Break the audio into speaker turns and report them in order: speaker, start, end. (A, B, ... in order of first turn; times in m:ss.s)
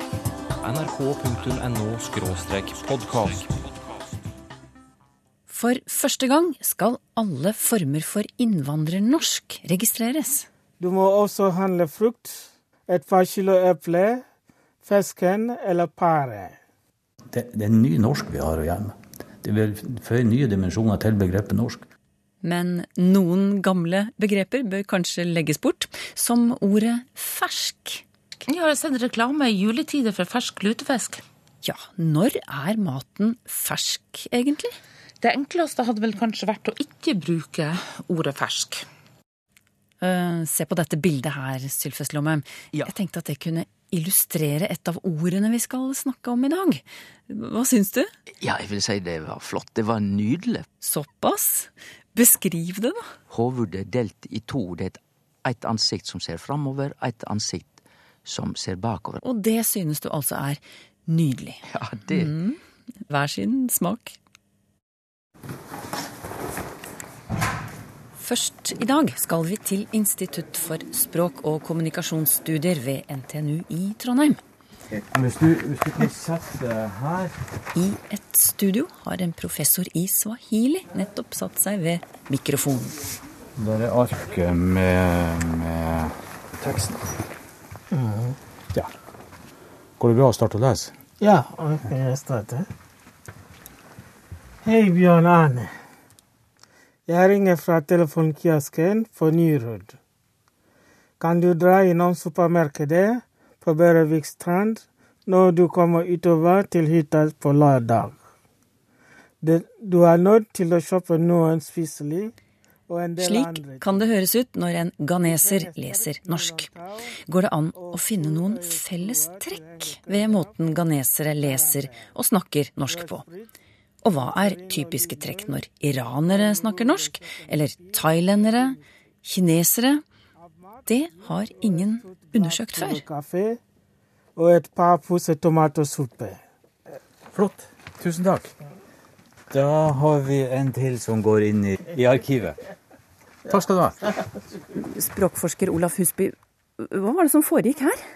0:00.6-0:03.5 A
0:05.5-0:10.5 B
0:10.8-0:14.2 C
0:14.8-0:16.6 C
0:17.3-0:21.8 D
0:22.4-0:28.0 B
0:28.5-0:31.2 E
0:31.6-0:34.8 B
0:35.2-0:38.8 E
0:40.0-0:48.1 B
0:48.4-0:50.6 F
0:50.8-0:53.1 B
0:53.3-0:59.2 F
0:59.2-1:04.2 B
1:01.7-1:02.3 F
1:08.2-1:14.4 B
1:15.0-1:17.4 D
1:17.7-1:23.0 B
1:23.6-1:27.1 D
1:27.9-1:28.4 C
1:30.0-1:30.9 D
1:31.2-1:32.7 C
1:34.6-1:35.7 C
1:37.1-1:40.0 C
1:41.2-1:48.2 C
1:49.4-1:52.3 C
1:52.9-1:54.1 C
1:53.2-1:56.7 B
1:55.2-1:57.2 C
1:57.3-2:03.2 B
1:57.7-2:00.5 C
2:01.4-2:02.0 C
2:02.8-2:03.5 C
2:04.0-2:10.0 B
2:04.1-2:05.6 C
2:06.2-2:08.8 C
2:10.6-2:13.6 C
2:10.9-2:13.0 B
2:14.4-2:16.4 C
2:17.3-2:18.5 D
2:19.5-2:22.6 D
2:23.5-2:24.1 D
2:24.8-2:28.0 B